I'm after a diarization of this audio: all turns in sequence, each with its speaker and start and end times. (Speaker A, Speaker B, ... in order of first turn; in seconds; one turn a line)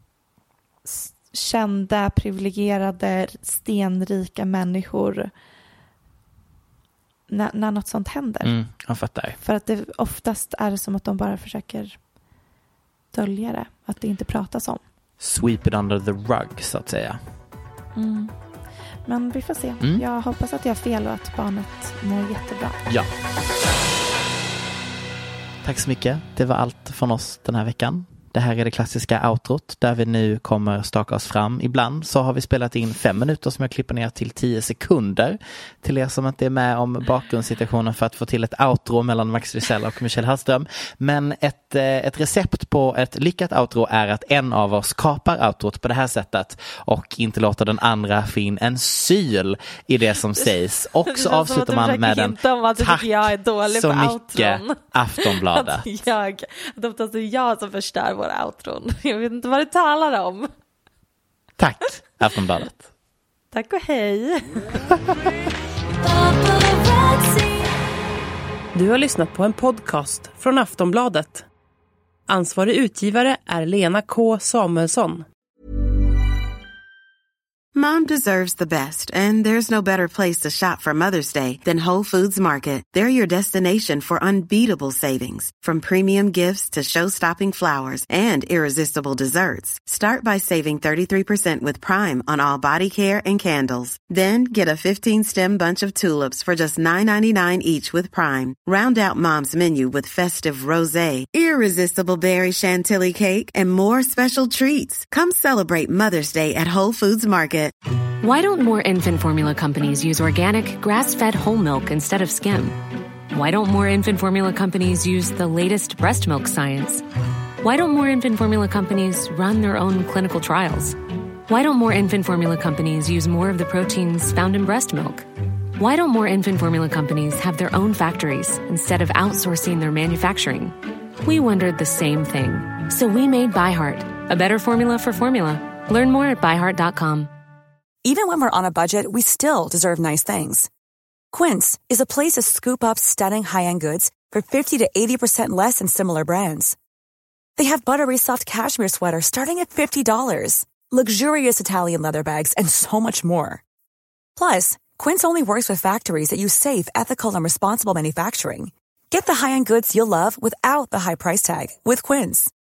Speaker A: 0.8-5.3
Speaker A: 7.3-8.6
Speaker B: 8.4-9.4
Speaker A: 9.4-12.0
Speaker A: 13.1-14.8
Speaker B: 15.2-17.2
Speaker A: 17.9-18.3
Speaker A: 19.1-22.8
Speaker B: 25.6-55.9
Speaker A: 51.0-60.5
Speaker B: 61.6-62.9
Speaker A: 63.5-64.8
Speaker A: 66.1-67.5
Speaker C: 68.7-71.5
Speaker C: 72.3-75.2
Speaker D: 77.7-107.7
Speaker E: 108.2-112.8
Speaker E: 113.3-117.0
Speaker E: 117.6-121.0
Speaker E: 121.5-125.2
Speaker E: 125.8-137.3
Speaker F: 138.0-140.7
Speaker F: 141.3-146.8
Speaker F: 147.6-153.6
Speaker F: 154.4-162.5